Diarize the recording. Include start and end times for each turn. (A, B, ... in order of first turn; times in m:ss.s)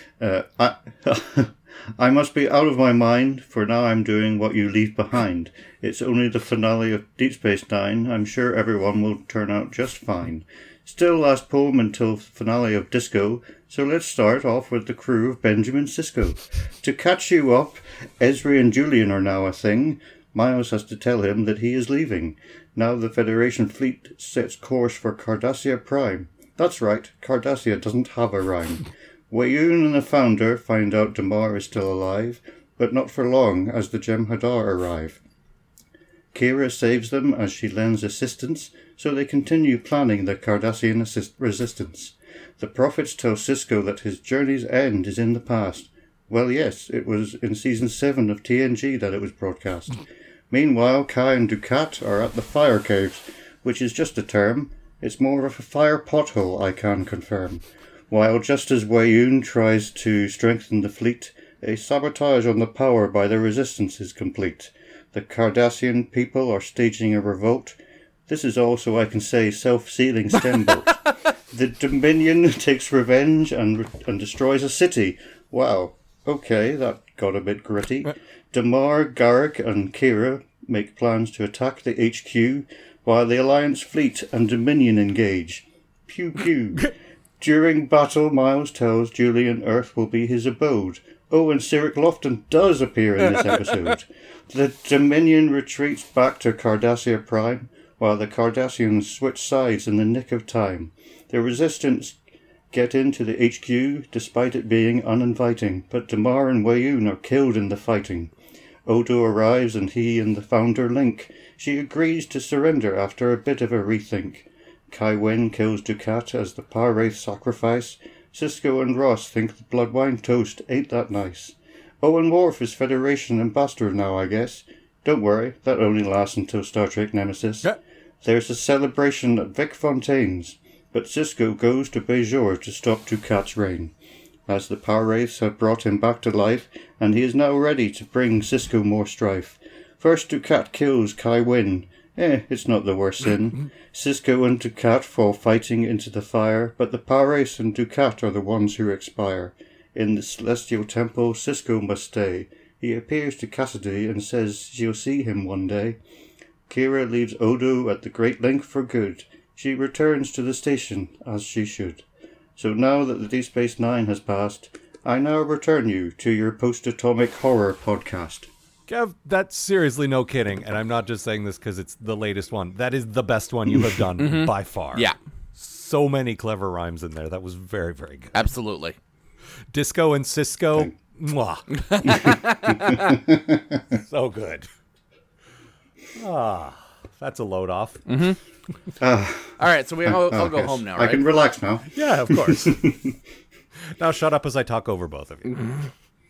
0:00.2-0:35.2 A
0:36.3-1:07.8 A
1:08.3-1:42.2 A
1:33.4-1:33.8 B
1:42.7-1:48.3 A
1:48.8-2:13.9 A
2:14.5-2:36.0 A
2:36.7-2:42.0 A
2:42.6-2:48.5 A
2:48.9-2:58.4 B
2:54.2-2:55.2 C
2:58.3-2:59.0 C
2:59.7-3:02.4 B
3:01.7-3:03.2 C
3:03.1-3:04.0 A
3:04.0-3:04.7 B
3:06.1-3:08.1 B
3:08.1-3:08.4 C
3:09.0-3:13.0 A
3:09.6-3:11.2 C
3:11.9-3:12.9 B
3:13.8-3:15.7 B
3:15.5-3:15.8 C